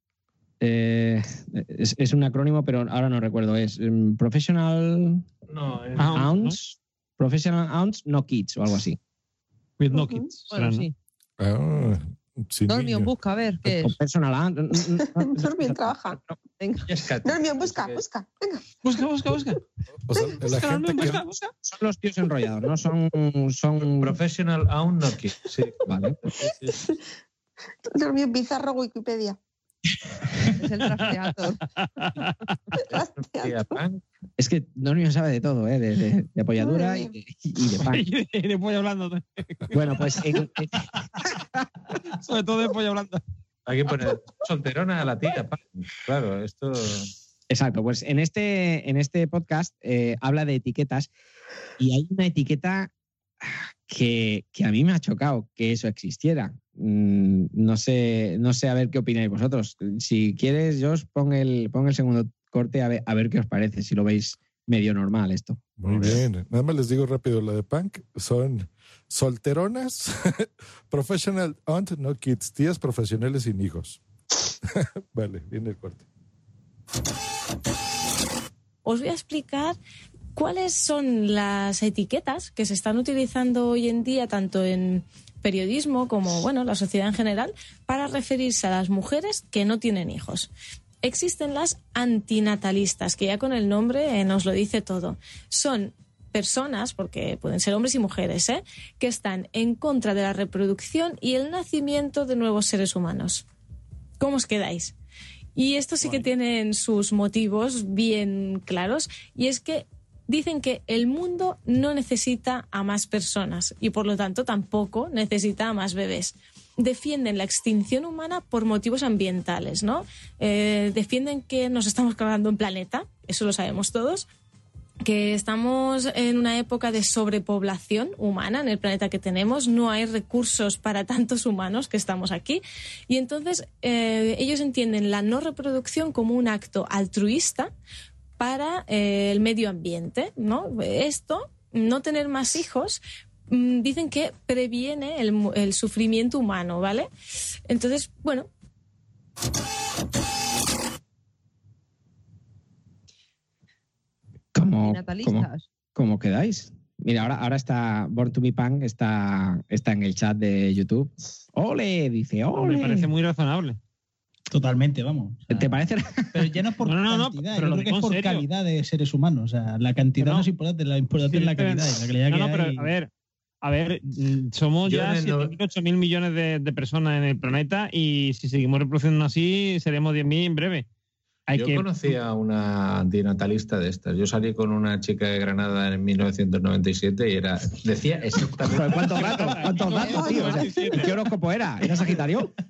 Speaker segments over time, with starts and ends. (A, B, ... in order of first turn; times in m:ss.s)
0:00.6-0:05.2 A
0:05.5-0:06.3 B
0:06.0-0:06.6 C
0:06.1-0:09.0 A
0:09.8-0:10.9 C
0:09.9-0:10.3 D
0:10.5-0:10.9 E
0:11.4-0:13.1 F
0:12.7-0:14.0 E
0:13.7-0:16.4 A
0:15.0-0:16.2 D
0:16.6-0:16.9 E
0:16.9-0:18.0 B
0:17.2-0:18.6 D
0:18.8-0:19.6 C
0:20.1-0:21.2 F
0:20.4-0:21.5 C
0:21.1-0:24.1 A
0:23.8-0:26.8 B
0:25.9-0:26.2 A
0:27.8-0:29.4 D
0:30.6-0:31.6 E
0:31.0-0:31.2 C
0:31.8-0:32.3 C
0:32.9-0:33.7 D
0:33.2-0:34.0 B
0:34.4-0:38.1 A
0:36.6-0:37.1 D
0:37.8-0:40.2 C
0:39.7-0:40.8 A
0:42.2-0:43.2 C
0:43.6-0:47.1 B
0:47.5-0:51.1 A
0:51.8-0:52.9 A
0:53.4-1:06.2 A
1:05.8-1:14.0 F
1:14.6-1:16.0 F
1:18.8-1:19.8 G
1:20.4-1:30.5 G
1:31.0-1:43.4 G
1:44.2-1:44.9 G
1:45.6-2:04.2 G
2:05.0-2:17.7 G
2:18.4-2:27.1 G
2:27.7-2:28.5 G
2:34.5-2:43.1 A
2:34.8-2:35.6 E
2:42.6-2:43.8 C
2:44.5-2:45.8 H
2:45.5-2:46.4 A
2:46.3-2:52.9 H
2:46.8-2:48.4 C
2:50.2-2:50.5 C
2:51.3-2:53.1 C
2:53.6-3:00.9 C
2:54.8-2:55.6 B
3:01.5-3:02.2 C
3:01.5-3:09.4 B
3:08.7-3:12.5 A
3:09.0-3:11.2 C
3:10.2-3:10.9 D